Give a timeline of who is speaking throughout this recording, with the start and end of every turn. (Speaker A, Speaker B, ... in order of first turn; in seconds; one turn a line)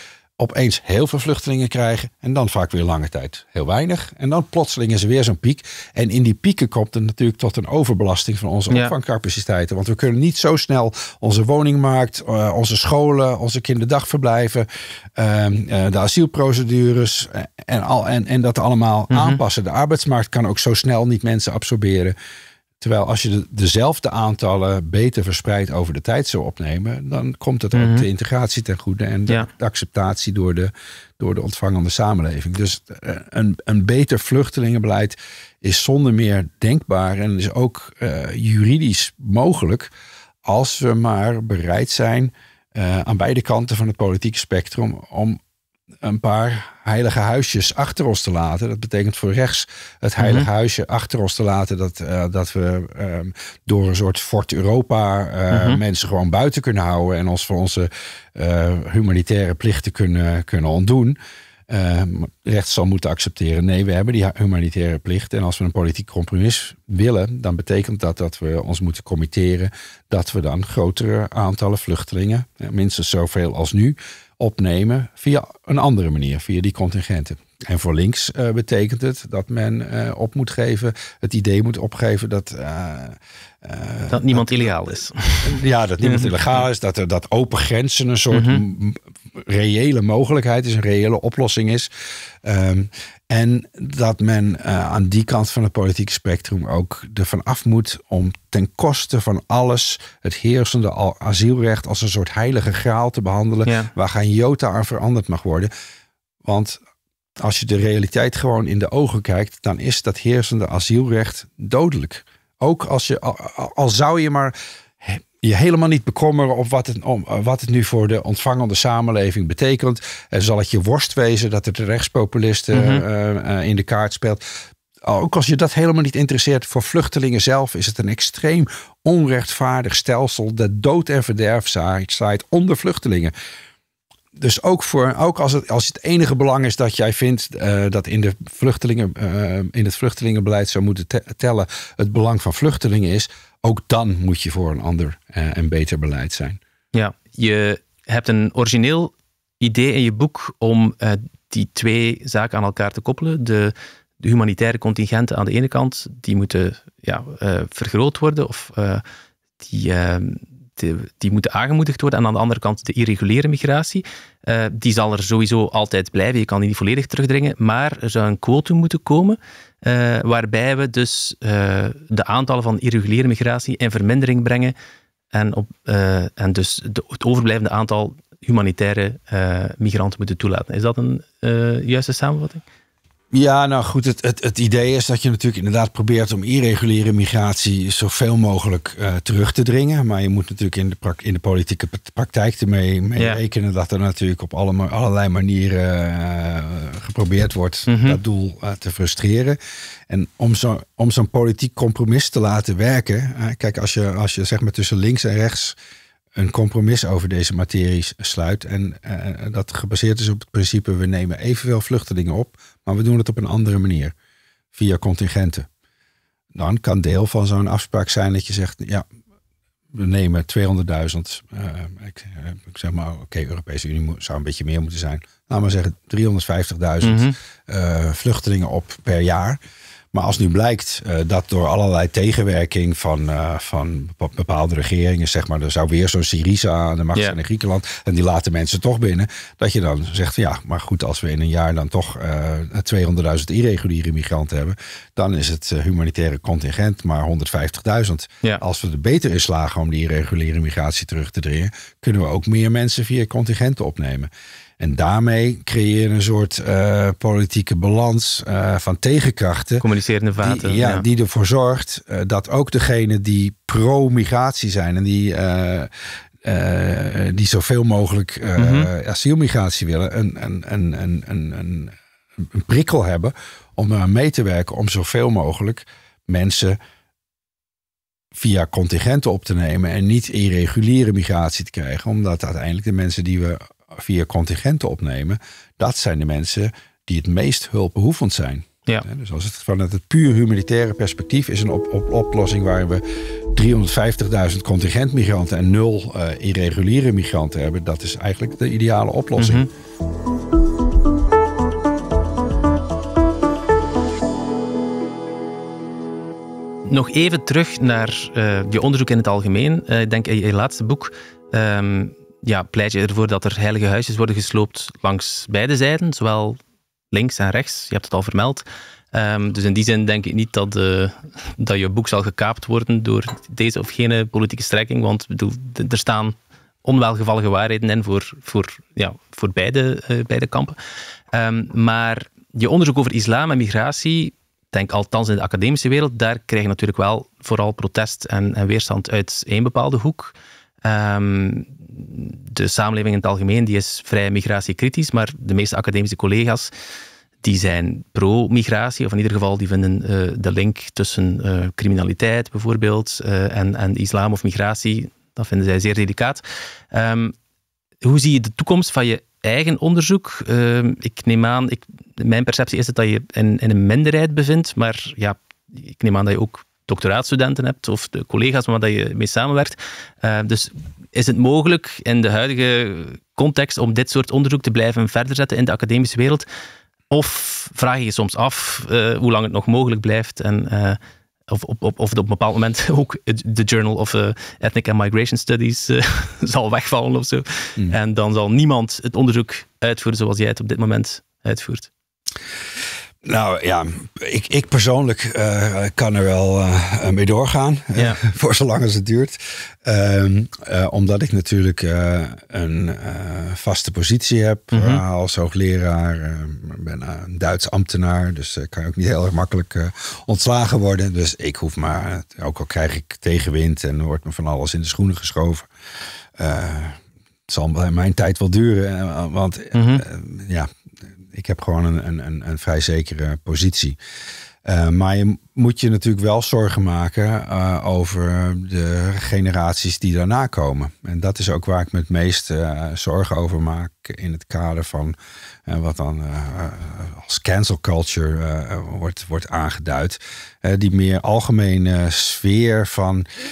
Speaker A: 0.4-22.1
Speaker B: 19.1-19.4
Speaker A: 22.8-39.9
Speaker B: 27.7-28.1
Speaker A: 40.5-45.4
Speaker A: 46.0-61.2
Speaker B: 50.2-50.5
Speaker B: 55.5-55.8
Speaker A: 61.7-91.9
Speaker B: 84.1-86.3
Speaker B: 88.3-88.6
Speaker A: 92.4-105.7
Speaker B: 103.7-103.9
Speaker A: 106.4-106.8
Speaker A: 107.4-124.4
Speaker B: 122.7-123.0
Speaker A: 125.0-133.3
Speaker A: 134.3-146.6
Speaker B: 146.9-159.0
Speaker B: 159.6-174.7
Speaker B: 175.3-182.6
Speaker A: 183.3-199.6
Speaker B: 197.9-198.2
Speaker A: 200.1-205.7
Speaker A: 206.3-214.1
Speaker A: 214.7-215.7
Speaker A: 216.5-219.0
Speaker A: 219.9-229.6
Speaker B: 227.0-227.3
Speaker A: 230.1-259.8
Speaker B: 259.8-261.1
Speaker A: 260.4-265.9
Speaker A: 266.4-276.8
Speaker B: 268.6-268.9
Speaker A: 278.3-293.0
Speaker A: 293.5-299.7
Speaker B: 299.4-299.7
Speaker B: 306.9-316.6
Speaker B: 317.1-330.8
Speaker B: 331.3-346.7
Speaker B: 347.4-357.3
Speaker B: 358.0-376.4
Speaker B: 377.1-391.9
Speaker A: 393.2-415.7
Speaker B: 404.7-405.0
Speaker A: 416.4-420.7
Speaker B: 419.7-420.0
Speaker A: 421.3-424.0
Speaker A: 424.6-435.1
Speaker A: 435.7-443.3